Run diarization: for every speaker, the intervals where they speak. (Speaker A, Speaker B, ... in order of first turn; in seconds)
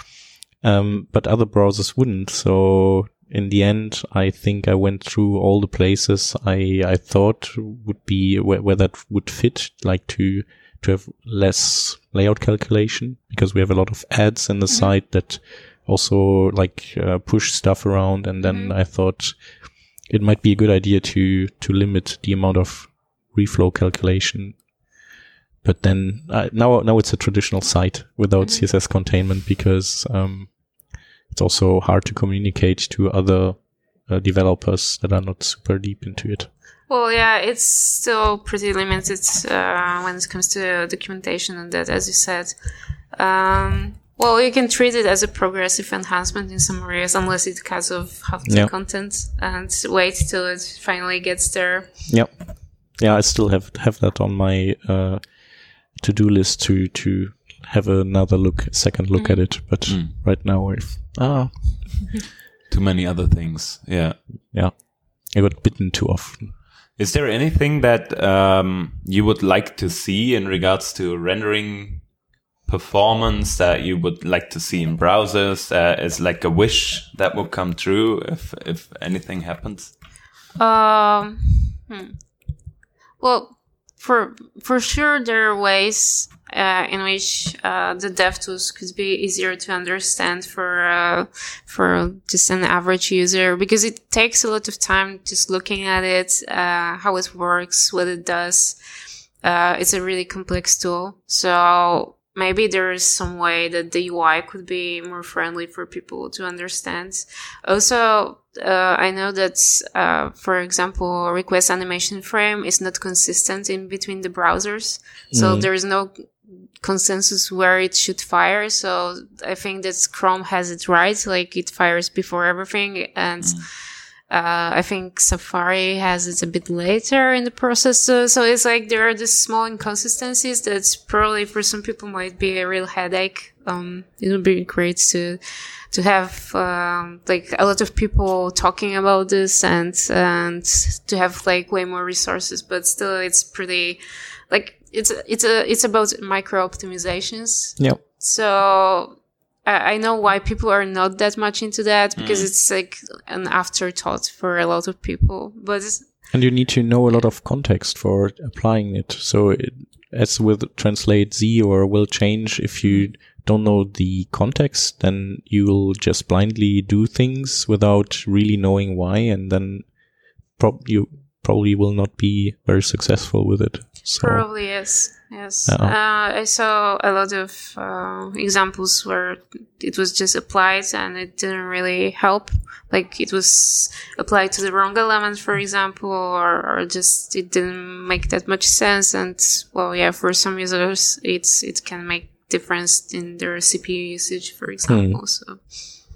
Speaker A: 0.6-24.7, 25.6-36.5, 48.5-48.7, 52.1-62.1, 64.5-66.6, 115.3-115.7, 156.3-174.8, 175.7-176.0, 194.9-195.7
Speaker B: 18.4-18.7, 28.4-28.6, 36.9-42.5, 43.1-52.0, 59.1-59.5, 80.6-82.5, 83.2-98.8, 99.4-135.4, 135.9-156.4, 174.2-195.7
Speaker C: 59.9-60.1, 62.7-64.2, 67.0-72.1, 72.7-80.0, 123.4-123.7, 152.2-152.5, 162.8-163.1